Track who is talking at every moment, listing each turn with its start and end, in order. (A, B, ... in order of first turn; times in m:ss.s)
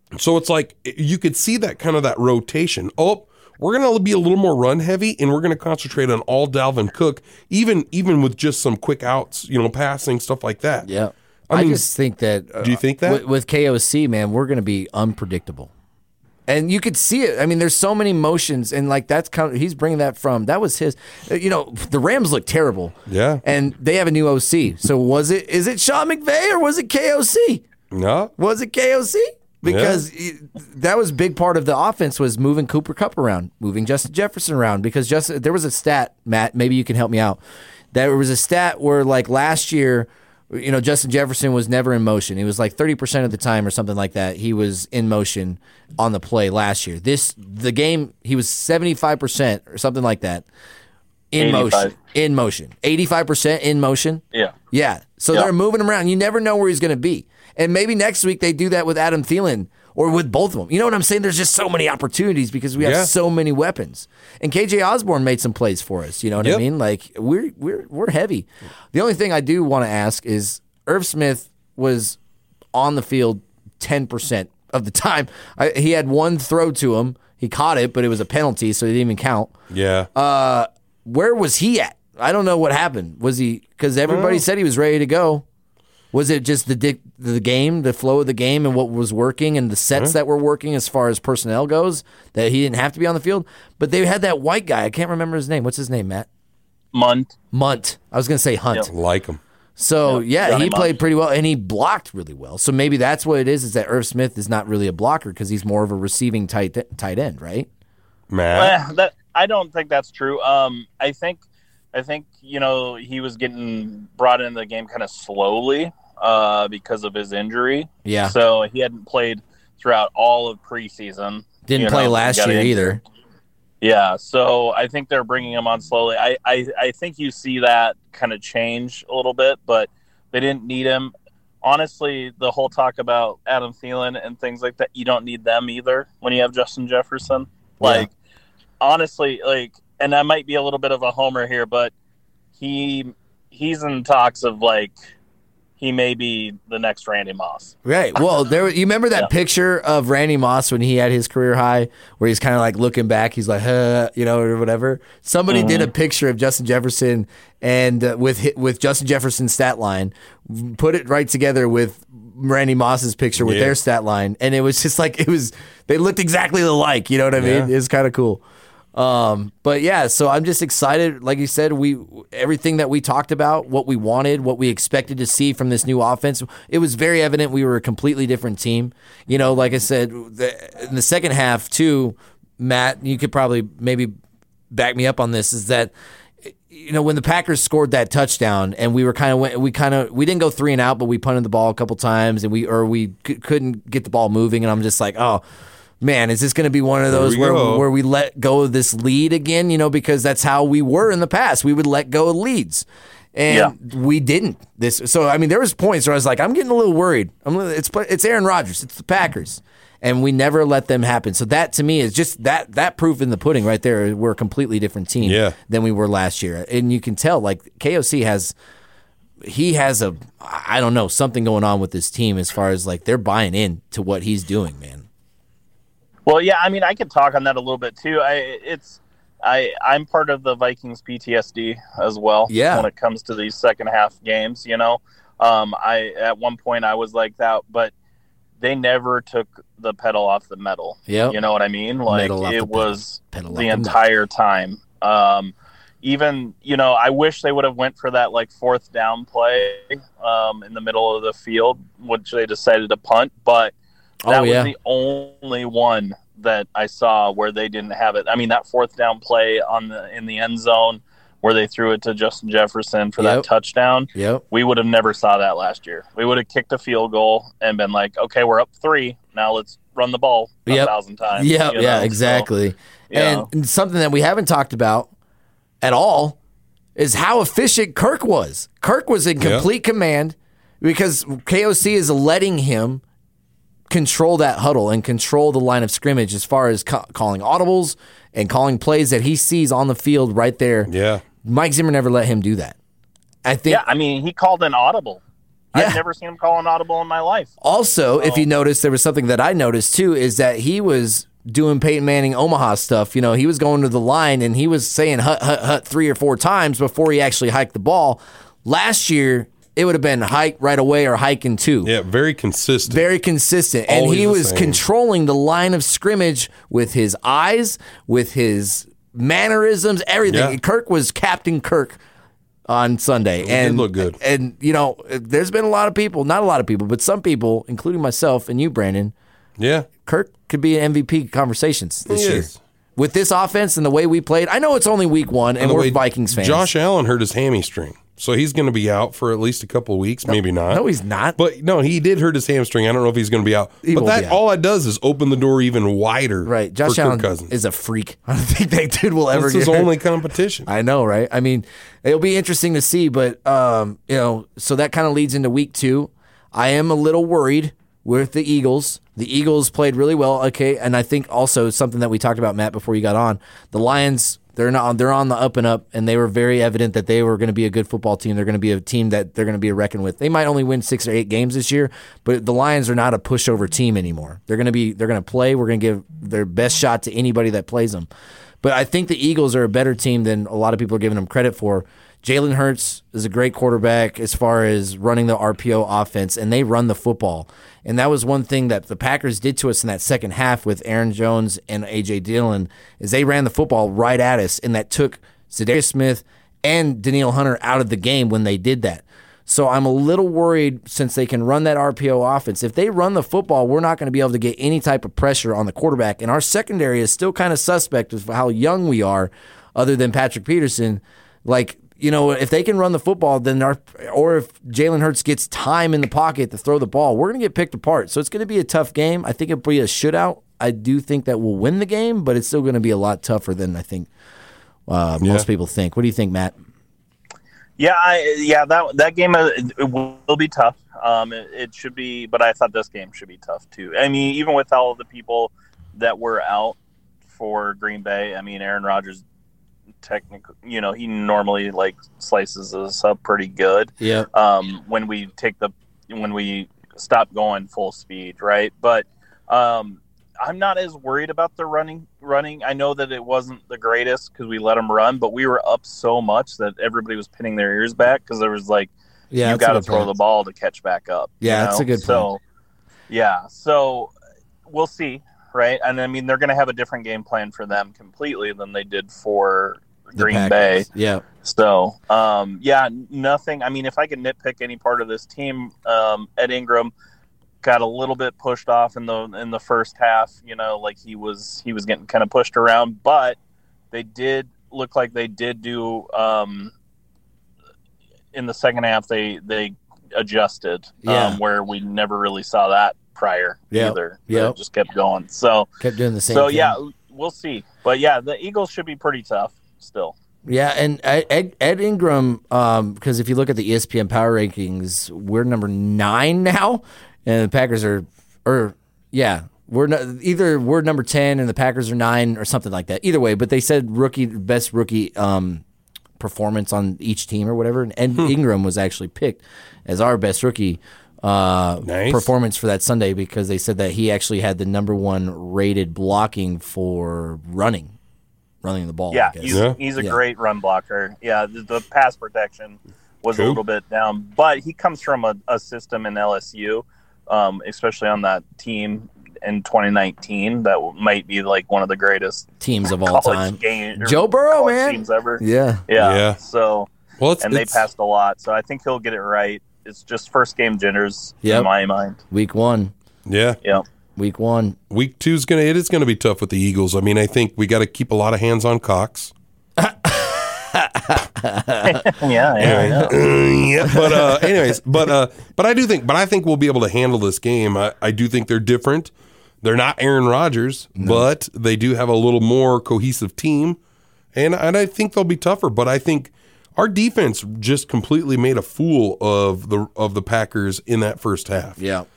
0:00.1-0:10.9 A
0:10.8-0:15.7 B
0:11.5-0:11.9 A
0:12.6-0:13.2 A
0:16.5-0:27.6 B
0:23.1-0:23.4 A
0:27.9-0:28.3 A
0:28.4-0:37.4 B
0:29.6-0:30.0 A
0:37.9-0:50.4 B
0:51.3-1:12.2 B
0:51.4-0:52.0 C
1:02.8-1:03.1 A
1:12.7-1:19.5 B
1:19.7-1:20.1 A
1:20.2-1:25.4 B
1:24.1-1:24.4 A
1:26.1-1:36.3 B
1:36.9-1:37.4 C
1:37.5-1:38.9 B
1:38.9-1:39.4 A
1:39.8-1:47.7 B
1:40.1-1:41.0 C
1:48.3-1:48.8 A
1:48.5-1:51.4 C
1:51.9-2:03.0 C
1:58.0-1:58.4 B
2:01.7-2:03.0 B
2:03.8-2:18.1 C
2:17.8-2:18.1 B
2:18.8-2:21.9 C
2:22.6-2:24.9 C
2:25.8-2:27.7 C
2:27.8-2:48.4 B
2:35.5-2:35.9 C
2:43.4-2:43.8 A
2:47.4-2:47.7 A
2:49.0-3:04.1 B
3:04.7-3:05.9 B
3:06.7-3:15.4 B
3:16.0-3:38.5 B
3:17.1-3:17.9 A
3:35.2-3:35.6 A
3:39.4-3:45.0 B
3:46.3-3:57.9 C
3:52.5-3:52.9 B
3:58.6-4:13.7 C
4:01.1-4:01.4 B
4:02.1-4:04.0 B
4:14.2-4:14.7 B
4:14.3-4:32.5 C
4:23.2-4:23.5 B
4:24.2-4:24.4 B
4:30.7-4:35.1 B
4:33.1-4:33.5 C
4:35.8-4:36.4 B
4:37.0-4:43.0 B
4:39.4-4:39.7 A
4:43.9-4:50.9 B
4:50.9-4:51.2 A
4:51.4-4:52.8 B
4:53.4-4:53.8 B
4:53.7-4:55.2 C
4:55.7-4:56.0 B
4:55.7-4:57.5 C
4:57.6-5:11.9 B
4:58.2-4:58.5 C
5:11.8-5:13.0 A
5:12.9-5:22.0 B
5:13.9-5:14.8 A
5:20.3-5:20.6 A
5:22.7-5:29.1 B
5:23.4-5:24.2 A
5:29.6-5:29.9 A
5:30.0-5:36.7 B
5:32.1-5:32.6 A
5:35.6-5:40.8 A
5:40.3-5:41.4 B
5:41.4-5:47.5 A
5:43.8-5:44.4 B
5:46.4-5:49.9 B
5:49.3-5:50.7 A
5:50.7-6:18.1 B
6:18.6-7:04.1 B
7:04.9-7:06.5 B
7:05.2-7:05.5 A
7:07.8-7:16.8 C
7:17.3-7:19.2 C
7:20.0-7:42.4 C
7:24.0-7:24.3 B
7:39.3-7:40.1 B
7:41.4-7:42.3 B
7:43.1-7:44.1 C
7:44.7-7:50.9 C
7:50.2-7:51.2 B
7:51.4-7:56.9 C
7:57.6-8:03.4 C
8:03.9-8:06.7 C
8:08.3-8:15.7 C
8:11.0-8:11.4 B
8:13.7-8:14.6 B
8:15.8-8:16.8 B
8:16.3-8:20.1 C
8:20.5-8:35.6 B
8:36.2-8:47.9 B
8:41.8-8:42.3 A
8:48.6-8:50.2 B
8:49.1-9:02.5 C
8:49.5-8:49.8 A
8:53.3-8:53.6 A
9:02.6-9:05.8 B
9:03.0-9:06.9 C
9:06.0-9:06.4 A
9:07.2-9:07.8 A
9:07.4-9:12.2 C
9:11.4-9:11.7 B
9:12.3-9:12.9 B
9:13.3-9:13.6 A
9:14.2-9:14.8 B
9:14.9-9:19.3 A
9:19.8-9:23.1 B
9:21.8-9:23.1 C
9:22.6-9:33.8 A
9:23.8-9:24.5 B
9:31.0-9:31.3 B
9:34.3-9:41.8 A
9:41.8-9:42.1 B